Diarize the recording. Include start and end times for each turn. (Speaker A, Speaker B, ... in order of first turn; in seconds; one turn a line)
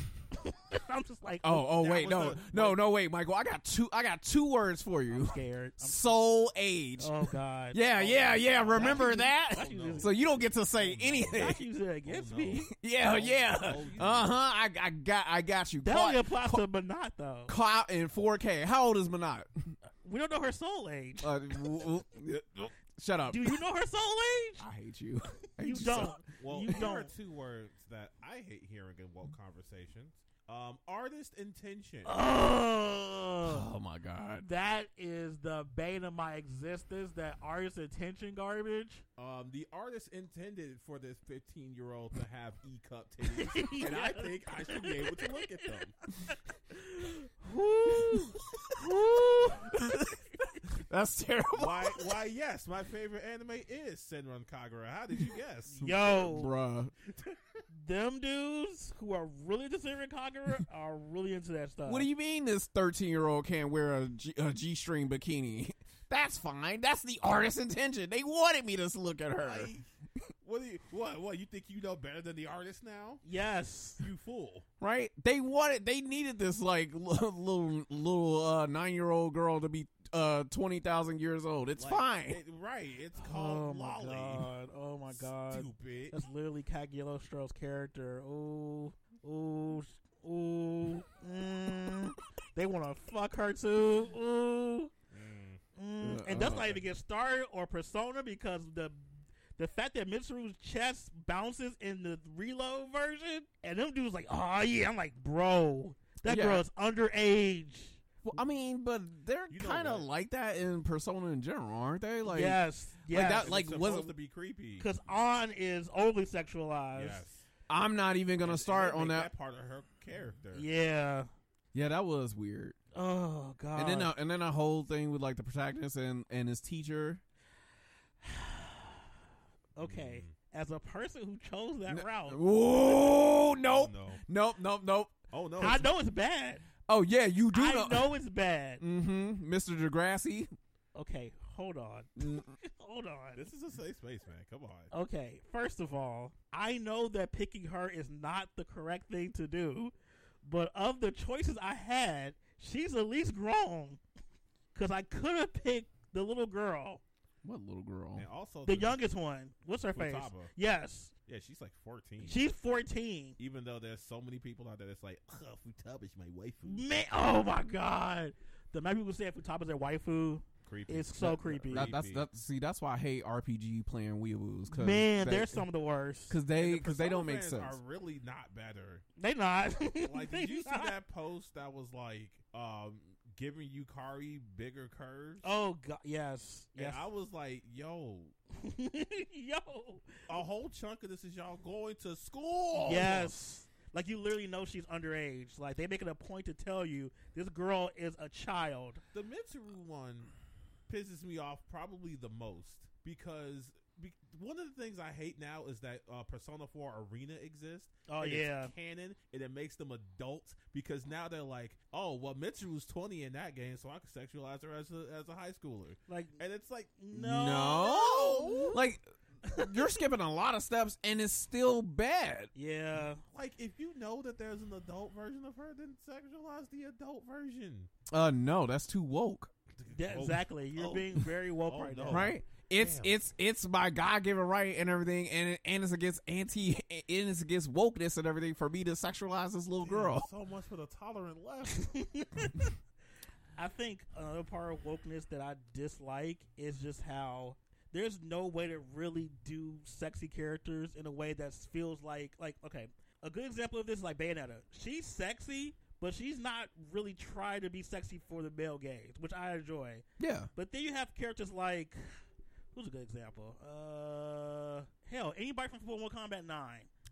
Speaker A: 0.3-2.2
Speaker B: 1.4-11.6
Speaker C: 1.8-2.8
Speaker A: 5.1-6.1
Speaker A: 7.0-10.2
Speaker C: 8.6-14.3
Speaker A: 11.3-12.7
Speaker B: 12.8-16.6
Speaker A: 15.8-17.5
Speaker B: 17.5-19.8
Speaker A: 20.0-21.7
Speaker B: 21.2-23.6
Speaker A: 23.3-24.6
Speaker B: 24.6-26.2
Speaker A: 25.6-27.1
Speaker C: 26.4-32.1
Speaker A: 32.0-33.7
Speaker B: 33.4-34.5
Speaker A: 34.4-39.0
Speaker C: 39.2-45.9
Speaker A: 43.3-45.7
Speaker A: 46.3-50.1
Speaker B: 49.5-50.0
Speaker B: 50.7-52.0
Speaker C: 51.6-56.3
Speaker A: 55.7-56.5
Speaker B: 56.2-56.9
Speaker A: 57.8-62.1
Speaker B: 61.9-69.7
Speaker C: 69.4-69.9
Speaker C: 70.4-73.2
Speaker A: 73.2-74.0
Speaker C: 74.0-74.7
Speaker B: 74.8-82.4
Speaker C: 81.8-84.5
Speaker A: 83.2-94.9
Speaker C: 85.1-86.2
Speaker C: 95.1-95.6
Speaker A: 95.8-99.0
Speaker B: 96.0-96.8
Speaker A: 99.6-108.0
Speaker B: 106.3-106.6
Speaker B: 108.2-114.1
Speaker C: 109.5-110.1
Speaker A: 112.3-113.5
Speaker C: 113.1-114.9
Speaker A: 114.8-117.2
Speaker C: 117.0-117.5
Speaker B: 117.7-119.3
Speaker C: 118.4-120.7
Speaker A: 120.5-121.3
Speaker B: 121.7-122.8
Speaker A: 122.9-124.1
Speaker B: 123.8-127.2
Speaker A: 128.2-128.9
Speaker A: 129.8-132.5
Speaker C: 129.8-130.3
Speaker B: 131.9-135.8
Speaker C: 133.7-134.2
Speaker C: 135.3-135.9
Speaker A: 135.6-136.6
Speaker B: 136.9-138.1
Speaker A: 137.5-138.8
Speaker B: 138.8-140.5
Speaker A: 140.9-143.5
Speaker B: 142.2-142.6
Speaker C: 143.4-144.9
Speaker A: 144.9-149.9
Speaker A: 150.4-154.0
Speaker A: 154.7-157.0
Speaker B: 157.4-158.3
Speaker C: 158.2-159.0
Speaker A: 158.7-161.1
Speaker C: 159.9-160.5
Speaker C: 161.3-162.4
Speaker A: 162.2-163.4
Speaker C: 163.4-166.8
Speaker A: 166.7-171.9
Speaker C: 170.7-172.3
Speaker B: 171.2-175.7
Speaker A: 174.7-176.4
Speaker B: 176.3-177.8
Speaker C: 176.6-179.0
Speaker A: 179.2-180.9
Speaker C: 179.9-185.5
Speaker A: 185.4-187.0
Speaker C: 186.8-188.3
Speaker A: 188.5-190.3
Speaker C: 190.3-193.4
Speaker A: 192.8-199.0
Speaker C: 199.1-200.3
Speaker C: 200.9-217.0
Speaker A: 208.1-208.7
Speaker A: 216.1-216.4
Speaker A: 217.0-218.8
Speaker B: 217.1-222.5
Speaker C: 217.9-218.8
Speaker A: 219.4-219.8
Speaker A: 222.6-223.2
Speaker C: 223.3-227.9
Speaker B: 228.1-229.5
Speaker C: 229.8-233.2
Speaker A: 229.9-232.3
Speaker B: 232.1-240.3
Speaker C: 239.8-241.9
Speaker A: 241.7-242.7
Speaker A: 243.6-262.0
Speaker B: 260.2-260.5
Speaker A: 262.7-266.9